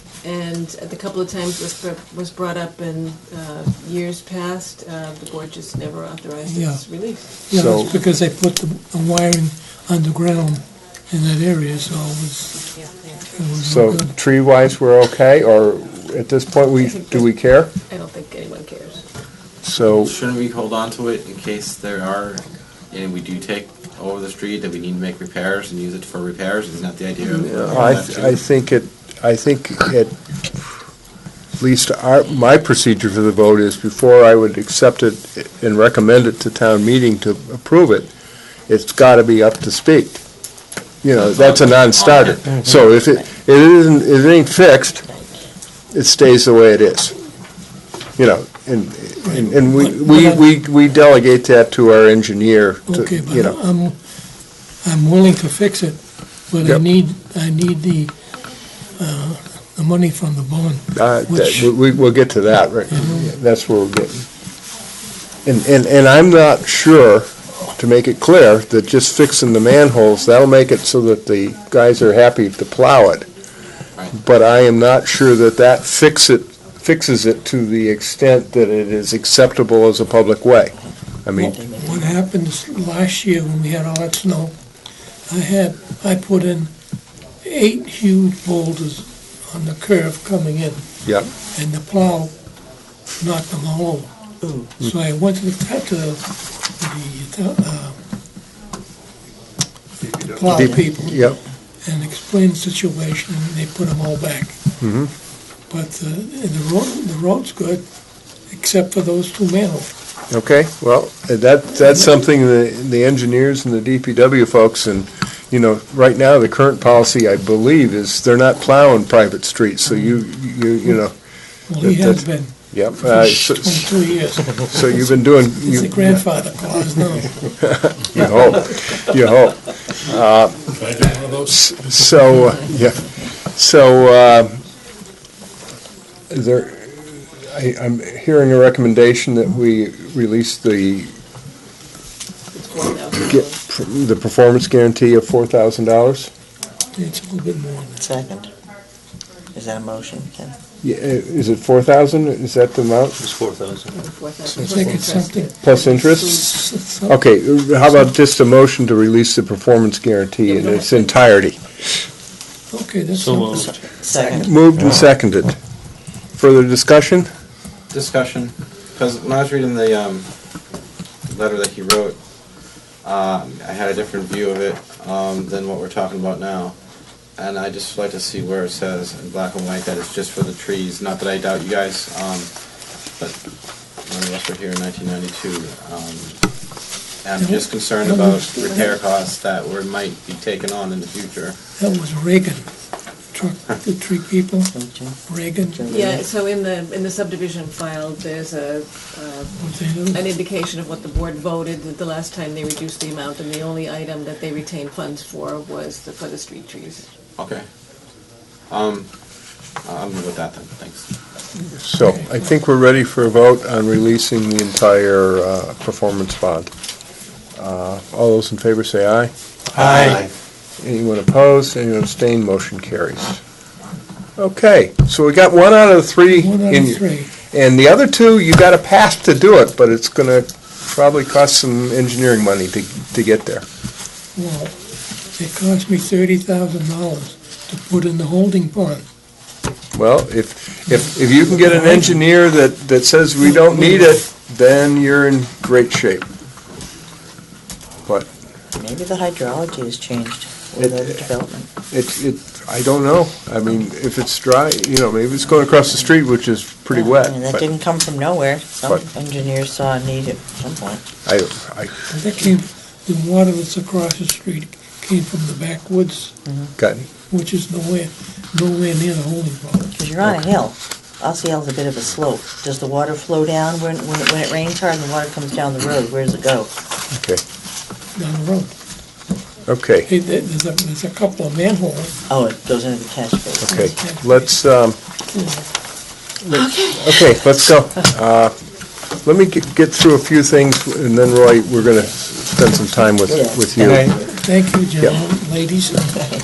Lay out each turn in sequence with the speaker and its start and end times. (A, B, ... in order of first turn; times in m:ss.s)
0:00.2-0:07.4 A
0:06.4-0:06.8 B
0:07.5-0:12.7 B
0:07.5-0:08.0 C
0:13.3-0:14.1 B
0:13.6-0:17.7 C
0:16.8-0:19.0 A
0:19.6-0:20.1 C
0:20.0-0:28.4 D
0:27.3-0:30.1 C
0:31.6-0:38.1 C
0:38.7-0:40.2 C
0:41.0-0:45.1 C
0:41.2-0:42.6 D
0:45.9-0:47.1 C
0:48.2-0:53.6 C
0:49.2-0:50.4 B
0:52.9-0:53.9 B
0:54.8-0:58.1 B
0:58.9-1:01.8 B
1:00.9-1:04.2 C
1:02.9-1:03.3 B
1:05.4-1:13.3 C
1:14.1-1:21.6 C
1:21.4-1:24.5 B
1:21.6-1:22.0 E
1:25.3-1:26.7 B
1:27.4-1:32.3 B
1:31.0-1:31.3 C
1:33.2-1:34.2 B
1:34.4-1:34.7 E
1:34.8-1:36.2 B
1:36.8-1:38.0 B
1:40.0-1:44.8 B
1:40.4-1:41.4 C
1:44.8-1:45.1 C
1:45.7-1:47.8 B
1:48.5-1:49.9 B
1:50.3-2:01.1 C
2:01.7-2:07.4 B
2:01.8-2:04.0 C
2:04.5-2:06.2 C
2:07.5-2:14.6 C
2:10.9-2:11.3 F
2:16.3-2:21.1 C
2:22.5-2:23.6 A
2:23.3-2:26.3 C
2:26.9-2:28.0 B
2:28.0-2:28.5 E
2:29.5-2:30.6 E
2:30.8-2:33.2 C
2:33.2-2:33.9 F
2:33.9-2:36.6 A
2:34.6-2:35.1 F
2:34.6-2:37.2 B
2:35.6-2:36.5 C
2:37.1-2:41.6 C
2:40.5-2:41.2 A
2:42.7-2:43.7 B
2:43.1-2:43.8 F
2:43.5-2:44.5 E
2:44.3-2:45.6 C
2:46.4-2:47.3 C
2:47.9-2:50.3 D
2:51.3-2:52.2 D
2:53.0-2:56.8 D
2:57.4-3:02.5 D
3:04.0-3:06.4 D
3:07.2-3:11.6 D
3:07.4-3:08.9 B
3:11.8-3:12.7 B
3:13.3-3:14.7 B
3:14.7-3:15.2 E
3:15.2-3:15.9 B
3:15.7-3:16.2 E
3:15.9-3:27.0 A
3:19.6-3:20.2 B
3:27.4-3:27.6 D
3:28.7-3:29.1 D
3:29.8-3:31.1 D
3:31.7-3:36.7 C
3:32.0-3:32.3 B
3:37.6-3:40.2 C
3:39.8-3:40.2 B
3:40.8-3:43.4 C
3:44.4-3:53.6 C
3:46.3-3:47.4 B
3:54.3-3:54.8 B
3:55.4-3:59.0 B
3:59.9-4:06.2 C
4:01.6-4:02.1 B
4:03.4-4:04.2 B
4:08.7-4:11.7 E
4:10.8-4:11.2 C
4:11.9-4:17.7 C
4:16.9-4:21.0 E
4:21.2-4:22.1 C
4:22.1-4:26.4 B
4:26.5-4:26.7 E
4:26.8-4:27.1 C
4:27.2-4:29.9 B
4:29.9-4:36.7 E
4:37.1-4:37.4 C
4:38.2-4:38.7 B
4:39.7-4:40.1 C
4:40.0-4:42.1 B
4:42.3-4:44.0 E
4:43.6-4:45.0 C
4:43.6-4:44.5 B
4:45.3-4:45.6 B
4:46.4-4:48.5 C
4:46.5-4:47.2 E
4:49.2-4:54.1 C
4:53.3-4:54.1 E
4:54.0-4:56.1 B